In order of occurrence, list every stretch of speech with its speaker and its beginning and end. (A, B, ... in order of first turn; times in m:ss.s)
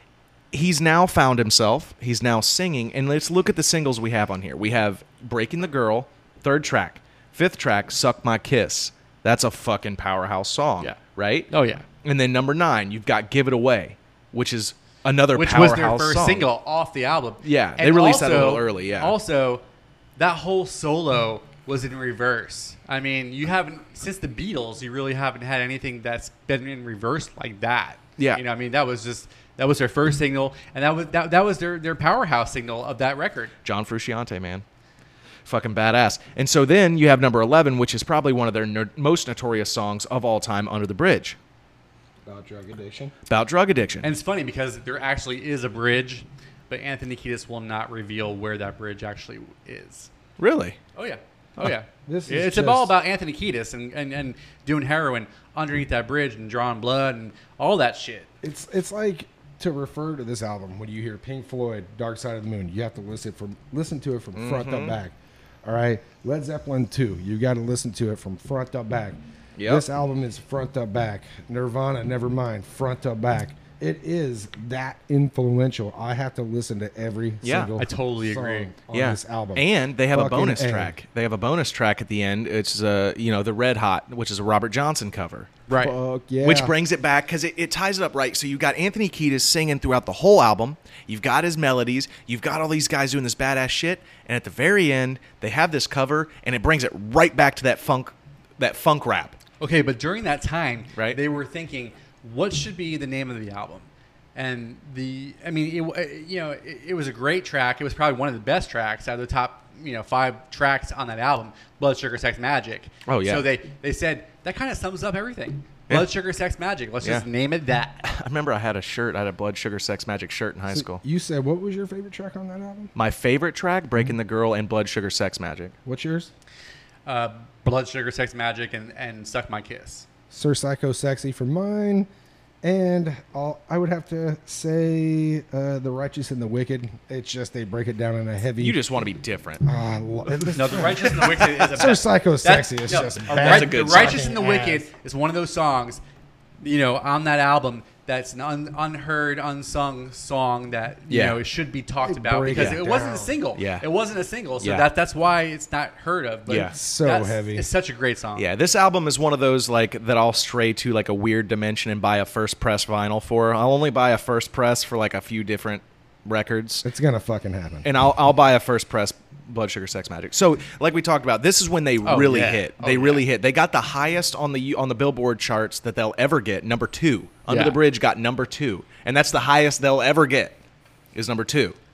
0:00.5-0:11.5 A
0:11.5-0:11.8 B
0:12.0-0:16.5 A
0:15.3-0:19.6 B
0:17.4-0:19.2 A
0:20.2-0:33.5 B
0:33.6-0:34.6 A
0:35.5-0:41.4 A
0:42.2-0:43.1 C
0:43.3-0:44.1 A
0:44.0-0:50.1 B
0:50.4-0:50.8 A
0:51.0-0:58.3 B
0:52.1-0:53.0 C
0:58.4-1:20.9 C
1:04.4-1:05.0 A
1:09.6-1:09.8 A
1:17.4-1:17.7 A
1:17.8-1:18.7 B
1:18.9-1:25.6 A
1:25.7-1:25.9 B
1:25.7-1:26.7 C
1:26.4-1:39.4 A
1:39.6-1:58.0 B
1:53.1-1:53.5 A
1:58.0-2:01.0 A
2:00.7-2:02.9 C
2:03.0-2:05.7 A
2:05.8-2:06.3 C
2:07.1-2:10.1 B
2:10.3-2:12.1 C
2:12.6-2:18.8 C
2:18.6-2:19.6 A
2:19.6-2:24.9 C
2:20.4-2:21.7 A
2:20.5-2:26.0 B
2:23.2-2:24.3 A
2:26.6-2:38.5 B
2:31.1-2:31.4 A
2:32.0-2:33.4 C
2:32.5-2:32.8 A
2:33.6-2:33.8 A
2:34.6-2:34.9 A
2:36.5-2:36.7 A
2:36.7-2:37.7 C
2:38.4-2:46.9 A
2:46.8-2:47.9 C
2:47.8-3:00.6 A
2:52.0-2:53.2 B
2:57.5-2:57.8 B
3:01.1-3:01.8 A